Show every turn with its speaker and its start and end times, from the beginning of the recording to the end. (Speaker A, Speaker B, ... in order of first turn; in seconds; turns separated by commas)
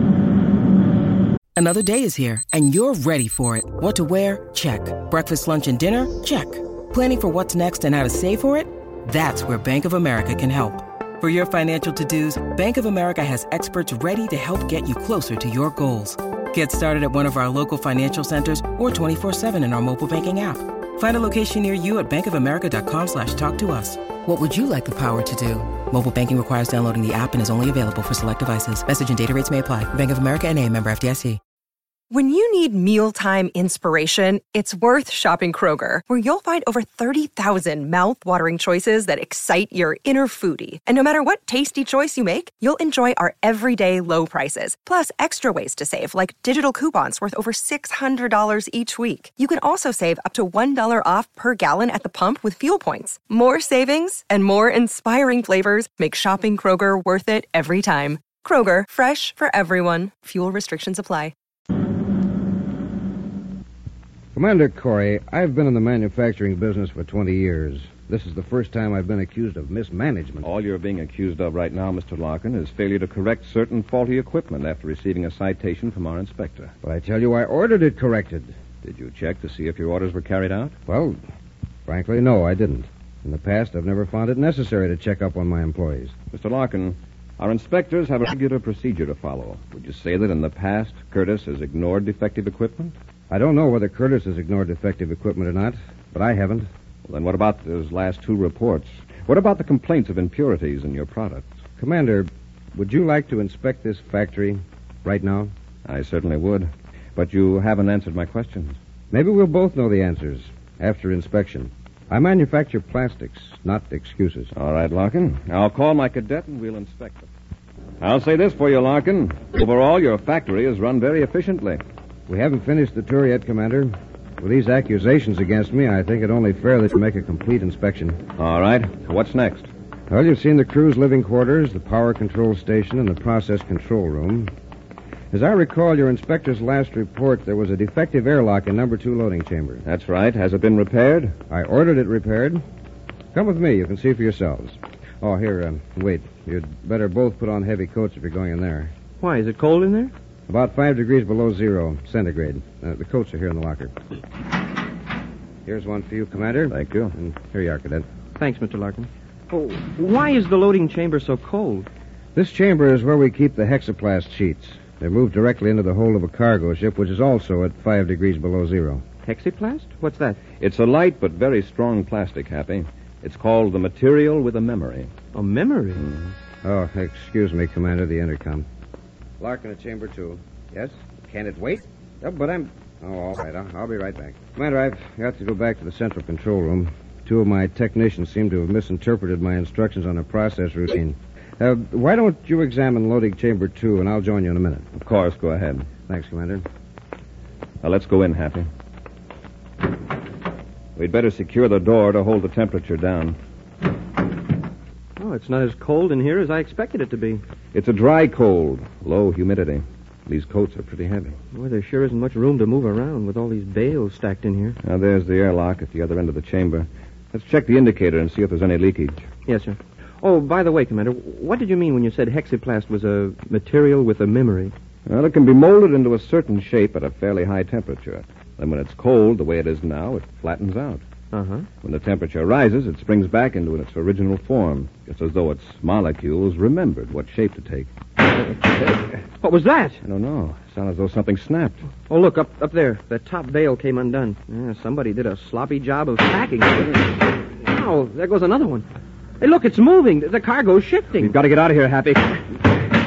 Speaker A: 1.5-31.4, Speaker B: 32.1-61.3, Speaker C: 64.3-70.5, Speaker D: 70.4-76.7, Speaker C: 76.8-78.5, Speaker D: 78.8-80.7, Speaker C: 80.9-81.2, Speaker C: 81.9-86.1, Speaker D: 86.3-92.9, Speaker C: 93.3-96.7, Speaker D: 97.0-101.5, Speaker C: 101.8-105.5, Speaker D: 105.8-108.8, Speaker C: 109.1-114.5, Speaker D: 114.5-117.3, Speaker D: 118.0-121.8, Speaker C: 122.3-128.2, Speaker D: 128.4-129.7, Speaker C: 130.1-134.5, Speaker C: 135.3-139.8, Speaker D: 139.8-141.3, Speaker C: 141.5-142.6, Speaker C: 143.3-148.9, Speaker E: 149.2-150.1, Speaker C: 150.5-153.9, Speaker C: 155.6-158.1, Speaker D: 156.7-157.1, Speaker E: 158.3-161.9, Speaker C: 162.3-169.0, Speaker E: 169.2-170.4, Speaker D: 170.6-175.1, Speaker E: 175.3-176.1, Speaker D: 176.0-176.3, Speaker C: 176.6-178.7, Speaker C: 179.4-194.9, Speaker D: 194.9-195.9, Speaker C: 196.1-196.6, Speaker D: 197.8-198.7, Speaker D: 200.9-203.4, Speaker E: 205.2-207.4, Speaker D: 207.7-211.4, Speaker E: 211.5-214.8, Speaker D: 214.8-219.2, Speaker E: 219.4-224.7, Speaker D: 225.1-231.0, Speaker E: 231.3-231.7, Speaker D: 231.8-237.9, Speaker E: 239.4-240.0, Speaker D: 240.0-241.8, Speaker E: 242.1-248.8, Speaker E: 249.4-251.3, Speaker D: 251.2-252.4